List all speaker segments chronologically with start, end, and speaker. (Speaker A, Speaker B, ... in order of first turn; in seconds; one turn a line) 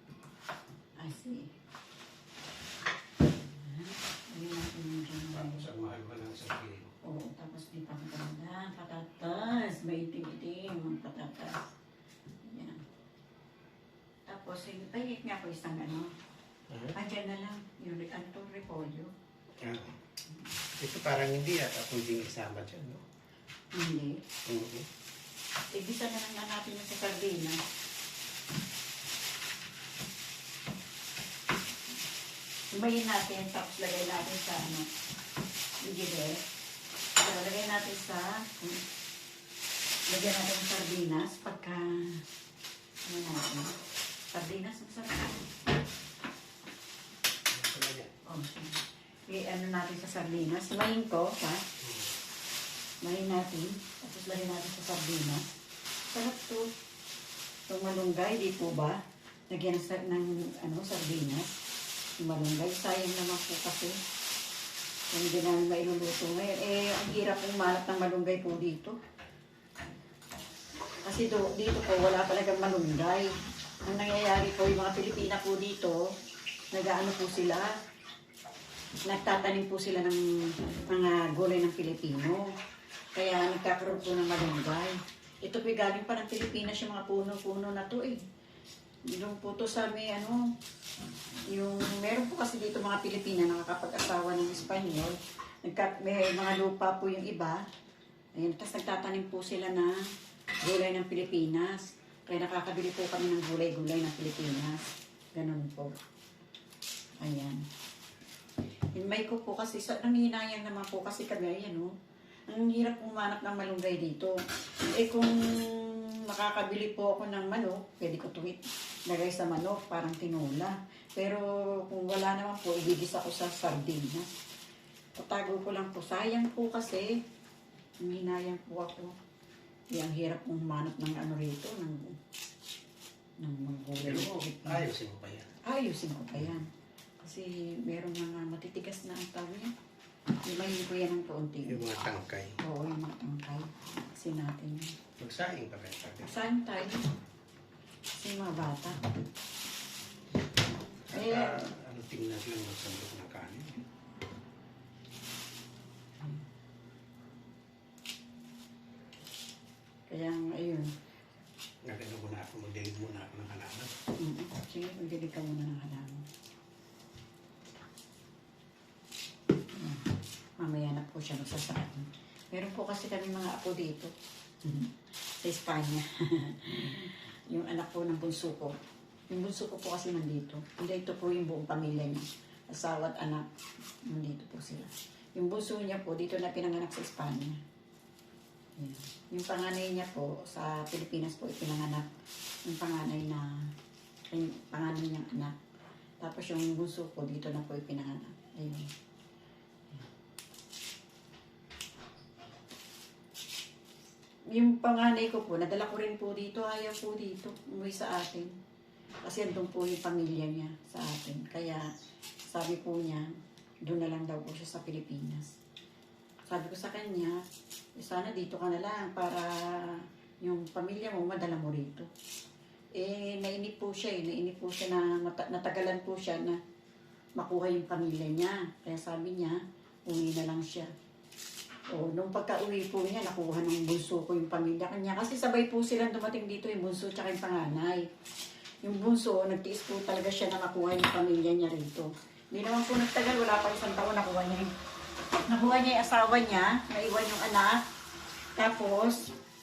Speaker A: 1.0-1.5
Speaker A: 3.3-5.7
Speaker B: 5.3-6.9
Speaker A: 7.0-11.7
Speaker A: 12.4-12.8
Speaker A: 14.3-16.1
Speaker B: 16.7-16.9
Speaker A: 16.9-19.1
Speaker B: 19.6-20.0
Speaker B: 20.8-23.0
Speaker A: 23.7-24.2
Speaker B: 24.5-24.9
Speaker A: 25.7-27.6
Speaker A: 32.7-34.9
Speaker A: 35.8-36.4
Speaker A: 37.2-38.8
Speaker A: 40.1-42.2
Speaker A: 43.0-43.8
Speaker A: 44.3-45.5
Speaker B: 47.5-48.1
Speaker A: 48.2-51.6
Speaker B: 51.8-52.1
Speaker A: 53.0-55.4
Speaker A: 56.1-56.7
Speaker A: 57.7-61.6
Speaker A: 62.2-64.0
Speaker A: 65.1-69.0
Speaker A: 71.0-73.3
Speaker A: 73.8-76.1
Speaker A: 76.7-77.8
Speaker A: 79.1-82.5
Speaker A: 83.1-88.2
Speaker A: 89.1-90.5
Speaker A: 91.5-97.6
Speaker A: 98.3-100.0
Speaker A: 100.6-105.9
Speaker A: 107.2-107.6
Speaker A: 108.9-111.9
Speaker A: 112.5-124.3
Speaker A: 125.2-127.2
Speaker A: 128.0-129.1
Speaker A: 129.9-132.2
Speaker A: 133.4-134.9
Speaker B: 134.0-135.5
Speaker A: 135.6-136.7
Speaker A: 137.2-139.7
Speaker A: 140.4-141.8
Speaker B: 141.6-142.6
Speaker A: 142.6-144.9
Speaker B: 145.2-146.4
Speaker A: 146.2-147.1
Speaker A: 148.2-149.0
Speaker B: 151.1-153.8
Speaker A: 151.1-151.7
Speaker A: 160.1-160.9
Speaker B: 161.8-163.9
Speaker A: 164.2-166.2
Speaker A: 169.7-170.1
Speaker A: 170.6-174.1
Speaker A: 174.6-178.7
Speaker A: 179.3-183.4
Speaker A: 184.0-187.6
Speaker A: 188.8-192.1
Speaker A: 192.7-193.7
Speaker A: 194.3-195.6
Speaker A: 196.2-198.9
Speaker A: 204.5-208.5
Speaker A: 209.2-211.9
Speaker A: 212.4-213.3
Speaker A: 213.8-215.5
Speaker A: 216.5-217.4
Speaker A: 218.0-222.1
Speaker A: 223.0-226.6
Speaker A: 227.4-230.9
Speaker A: 231.9-238.1
Speaker A: 238.8-244.7
Speaker A: 245.5-247.8
Speaker A: 248.6-249.3